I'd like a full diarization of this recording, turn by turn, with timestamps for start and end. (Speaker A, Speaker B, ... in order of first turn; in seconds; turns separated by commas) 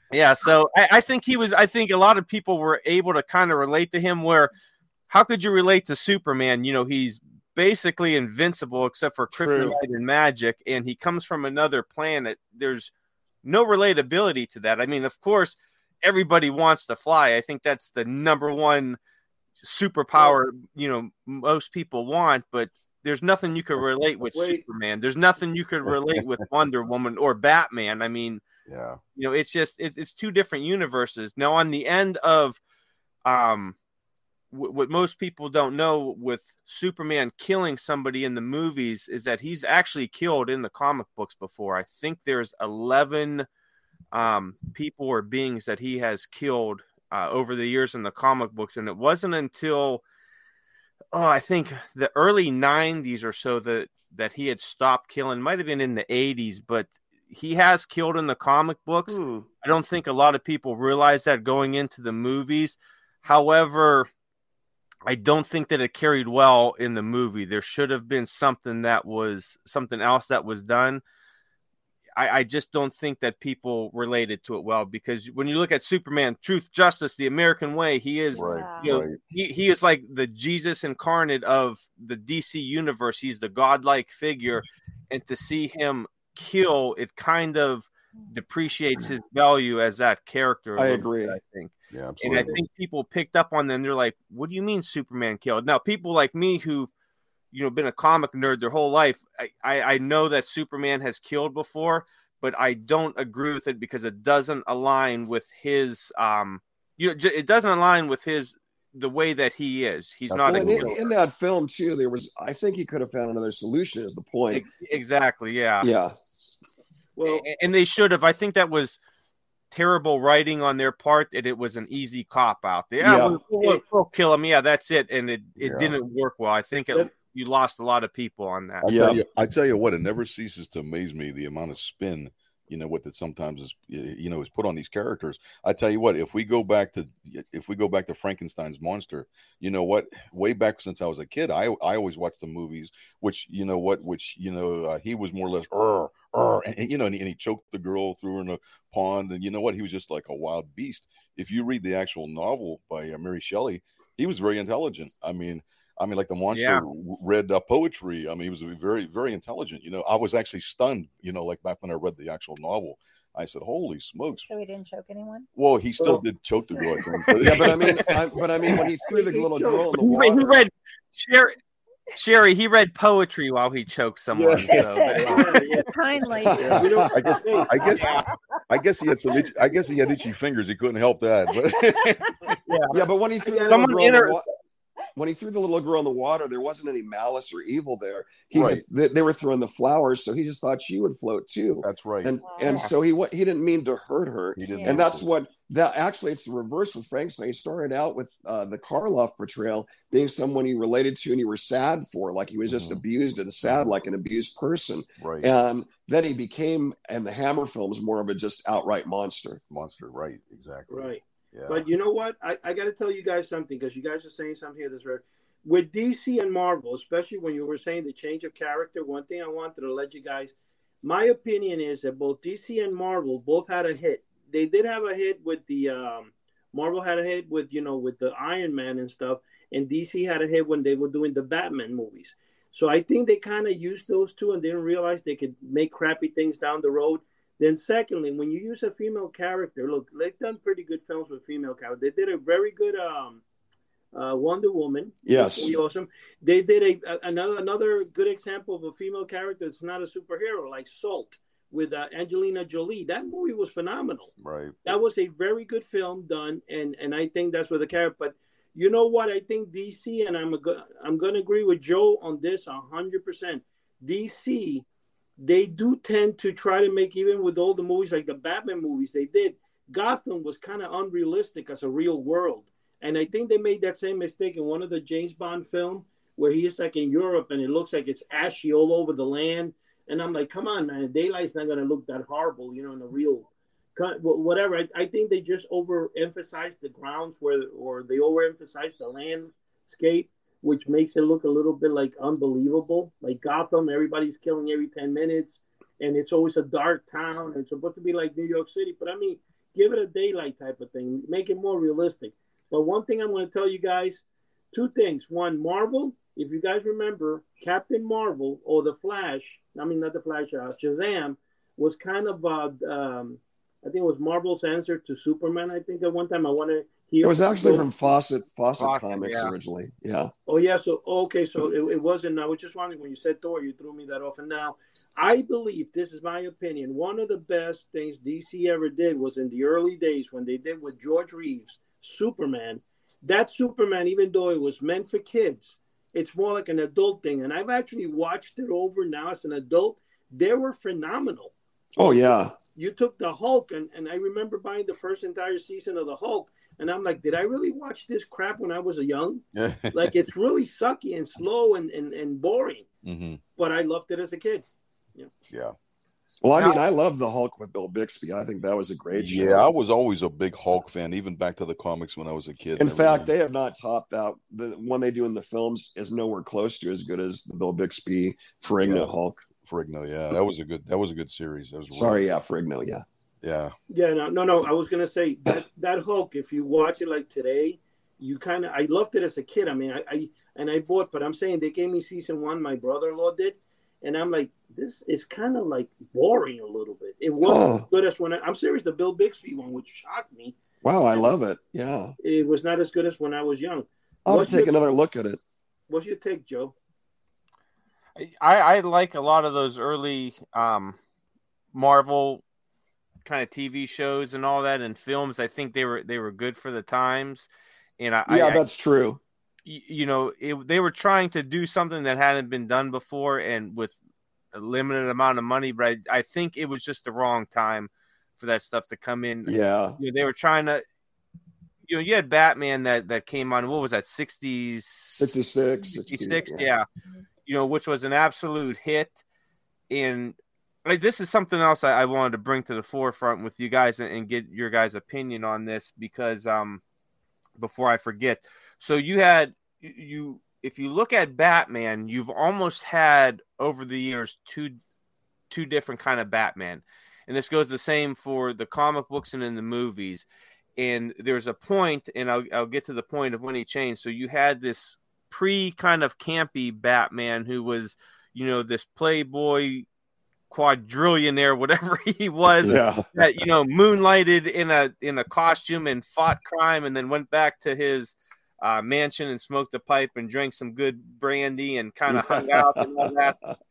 Speaker A: 0.1-4.5, Speaker A: 5.1-12.9, Speaker B: 9.3-9.8, Speaker A: 13.4-19.0, Speaker A: 19.6-28.4, Speaker C: 24.3-24.6, Speaker D: 28.7-29.0, Speaker A: 29.2-32.6, Speaker A: 33.2-33.8, Speaker A: 34.5-43.5, Speaker A: 44.1-50.0, Speaker A: 51.1-64.1, Speaker B: 59.1-59.5, Speaker A: 65.1-71.0, Speaker A: 72.2-96.9, Speaker E: 78.3-79.0, Speaker D: 78.3-79.2, Speaker B: 90.8-91.4, Speaker D: 91.9-92.6, Speaker A: 97.5-111.1, Speaker D: 110.3-111.0, Speaker B: 110.5-114.7, Speaker A: 114.5-115.9, Speaker B: 115.8-116.1, Speaker C: 117.2-117.4, Speaker A: 117.2-119.0, Speaker A: 119.7-128.8, Speaker B: 123.0-123.4, Speaker D: 125.6-125.9, Speaker D: 128.8-164.4, Speaker B: 128.9-129.2, Speaker A: 156.5-156.8, Speaker E: 164.4-165.4, Speaker D: 165.5-168.8, Speaker B: 167.4-170.6, Speaker C: 169.1-169.9, Speaker A: 170.0-171.5, Speaker A: 172.1-175.9, Speaker E: 174.7-177.2, Speaker C: 175.3-175.8, Speaker B: 176.4-177.9, Speaker D: 176.7-182.6, Speaker C: 176.7-177.8, Speaker E: 177.8-178.4, Speaker A: 177.8-178.3, Speaker E: 179.3-180.2, Speaker E: 181.7-182.5, Speaker A: 182.7-183.0, Speaker B: 182.9-184.4, Speaker C: 183.4-183.8, Speaker A: 183.7-184.4, Speaker B: 185.2-209.6, Speaker D: 188.5-188.8, Speaker D: 191.8-192.4, Speaker E: 192.4-192.9, Speaker A: 192.7-192.9, Speaker D: 194.6-195.2, Speaker E: 194.7-195.1, Speaker D: 202.7-203.0, Speaker D: 205.2-205.5, Speaker D: 209.7-211.8, Speaker C: 210.9-243.4, Speaker C: 244.1-254.3, Speaker B: 245.2-245.8, Speaker D: 254.4-254.7, Speaker C: 254.8-264.8, Speaker C: 265.4-317.9, Speaker B: 317.2-320.3, Speaker A: 318.8-319.5, Speaker C: 320.5-341.5, Speaker B: 341.9-342.6, Speaker C: 342.7-352.9, Speaker D: 349.5-350.1, Speaker D: 353.0-353.4, Speaker C: 353.6-355.3, Speaker D: 355.5-355.7, Speaker B: 356.4-359.7, Speaker D: 359.1-363.3, Speaker B: 362.8-369.4, Speaker D: 368.8-369.1, Speaker D: 369.6-372.2, Speaker B: 371.9-373.0, Speaker D: 373.4-373.7, Speaker C: 373.9-390.5, Speaker B: 387.4-387.9, Speaker B: 390.8-392.1, Speaker C: 392.2-394.8, Speaker B: 394.2-395.4, Speaker C: 395.9-396.7, Speaker A: 398.1-401.0, Speaker A: 401.7-402.4, Speaker A: 403.2-408.6, Speaker B: 408.3-409.2, Speaker A: 409.6-414.0, Speaker A: 414.5-420.8, Speaker B: 419.4-420.0, Speaker A: 421.9-425.3, Speaker B: 425.1-426.7, Speaker A: 426.1-426.8, Speaker A: 427.4-429.2, Speaker A: 429.9-436.8, Speaker A: 437.6-444.8, Speaker A: 445.5-450.2, Speaker A: 450.8-459.9, Speaker A: 460.5-473.4, Speaker B: 462.6-463.0, Speaker B: 472.1-473.5